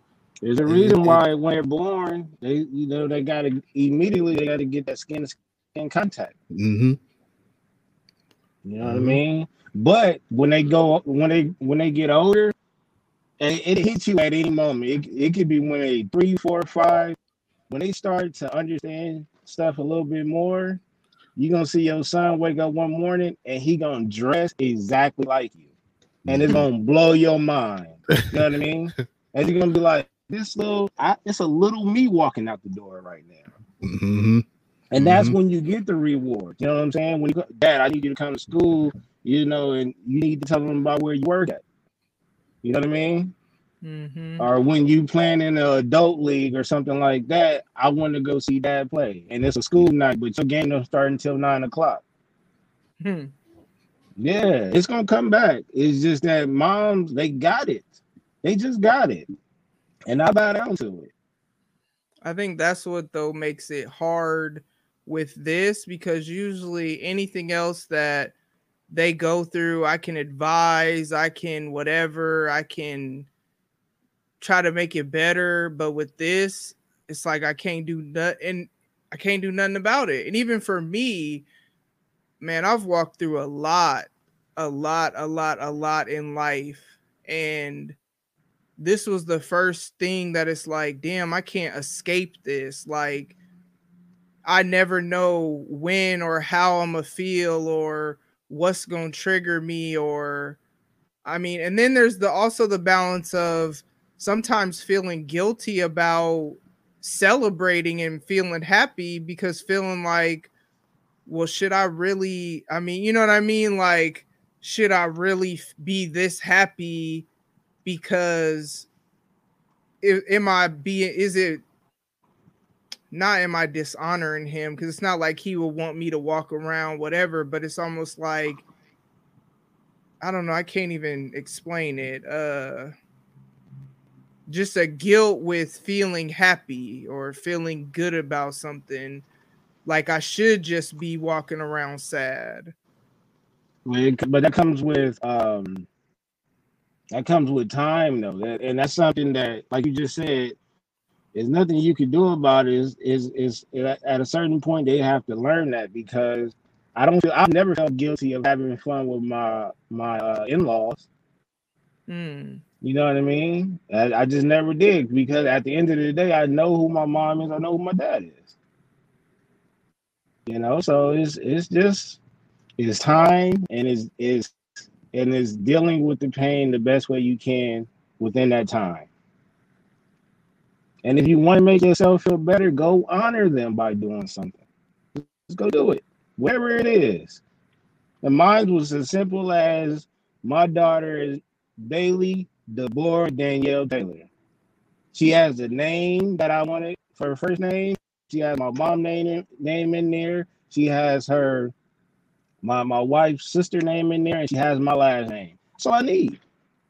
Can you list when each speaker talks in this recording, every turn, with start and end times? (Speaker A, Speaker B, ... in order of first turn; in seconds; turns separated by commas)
Speaker A: 0.4-6.3, Speaker B: 0.7-1.2, Speaker B: 6.5-7.0, Speaker A: 8.7-12.6, Speaker B: 8.8-9.2, Speaker A: 13.4-17.2, Speaker A: 17.7-20.8, Speaker A: 21.4-25.6, Speaker B: 26.3-26.7, Speaker A: 26.3-33.5, Speaker B: 33.8-34.5, Speaker A: 34.9-41.6, Speaker B: 35.0-35.4, Speaker A: 42.6-43.3, Speaker C: 43.8-44.5, Speaker A: 44.4-52.0, Speaker C: 53.0-53.3, Speaker A: 54.2-57.9, Speaker A: 58.4-59.3, Speaker A: 60.1-61.1, Speaker C: 62.2-68.3, Speaker C: 68.9-73.3, Speaker C: 74.4-81.5, Speaker C: 82.4-88.0, Speaker C: 88.8-93.3, Speaker C: 94.5-100.6, Speaker C: 101.2-110.5, Speaker C: 111.3-117.3, Speaker C: 117.8-118.9, Speaker C: 120.0-121.6, Speaker C: 123.1-128.6, Speaker C: 130.2-132.9, Speaker C: 134.5-139.2, Speaker C: 139.9-142.7, Speaker A: 143.8-145.9, Speaker A: 147.1-150.6, Speaker A: 151.3-161.1, Speaker C: 162.1-162.6, Speaker A: 162.8-168.5, Speaker A: 170.5-172.2, Speaker A: 172.8-174.6, Speaker A: 175.1-179.1, Speaker A: 181.0-184.6, Speaker A: 185.2-187.4, Speaker A: 188.2-194.3, Speaker A: 195.1-201.7, Speaker A: 202.6-206.4